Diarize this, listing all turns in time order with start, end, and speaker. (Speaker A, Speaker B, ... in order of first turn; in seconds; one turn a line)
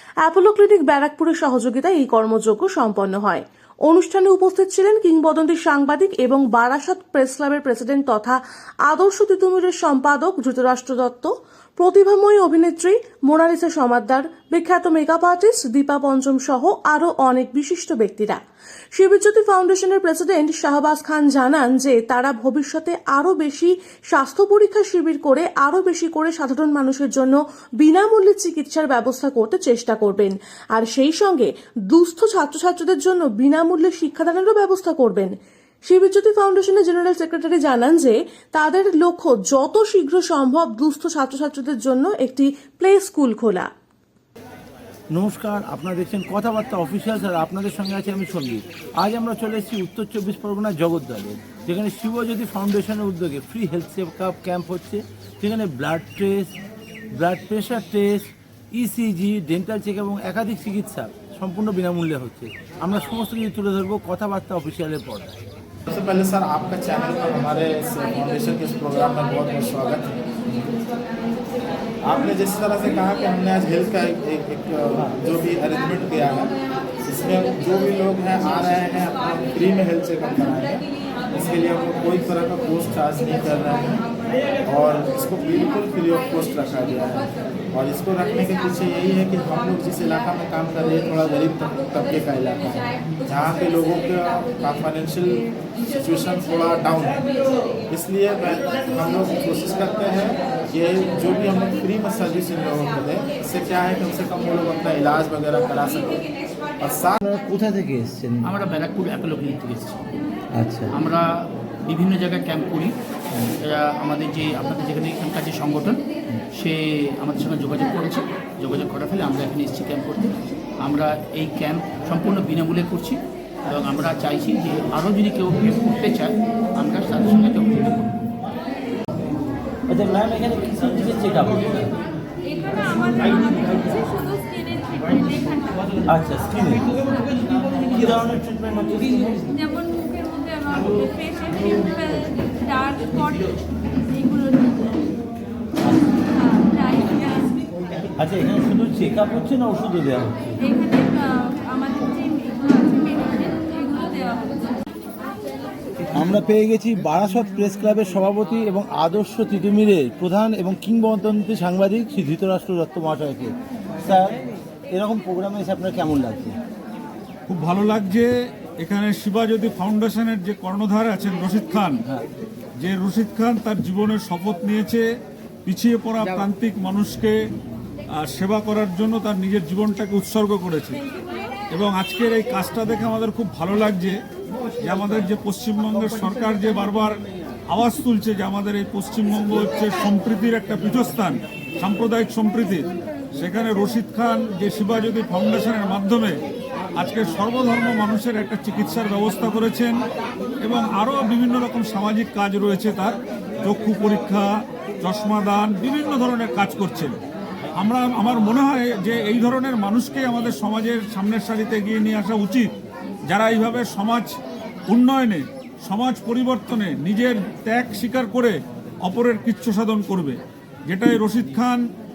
Speaker A: 0.2-18.4
Speaker A: 18.9-43.7
Speaker B: 45.1-56.5
Speaker B: 57.2-65.5
Speaker C: 65.9-70.3
Speaker C: 72.1-84.0
Speaker C: 84.6-97.3
Speaker C: 97.9-106.3
Speaker C: 106.8-107.2
Speaker B: 107.2-108.5
Speaker D: 108.4-110.0
Speaker B: 110.5-110.9
Speaker D: 110.9-113.0
Speaker D: 113.6-116.0
Speaker D: 116.5-128.2
Speaker B: 129.9-131.9
Speaker E: 132.4-136.0
Speaker B: 133.2-133.5
Speaker B: 136.0-139.4
Speaker E: 136.7-137.3
Speaker E: 139.5-145.1
Speaker B: 145.8-146.1
Speaker E: 146.3-147.6
Speaker B: 148.2-150.6
Speaker E: 150.6-154.8
Speaker B: 156.1-164.4
Speaker B: 164.9-166.6
Speaker F: 167.5-168.3
Speaker F: 168.8-172.0
Speaker F: 172.8-175.0
Speaker F: 175.7-177.3
Speaker F: 178.2-181.0
Speaker F: 181.7-184.2
Speaker F: 184.8-187.2
Speaker F: 187.7-196.4
Speaker F: 196.9-199.9
Speaker F: 200.6-204.5
Speaker F: 205.0-207.2
Speaker F: 207.8-212.7
Speaker F: 213.3-214.3
Speaker F: 214.9-221.8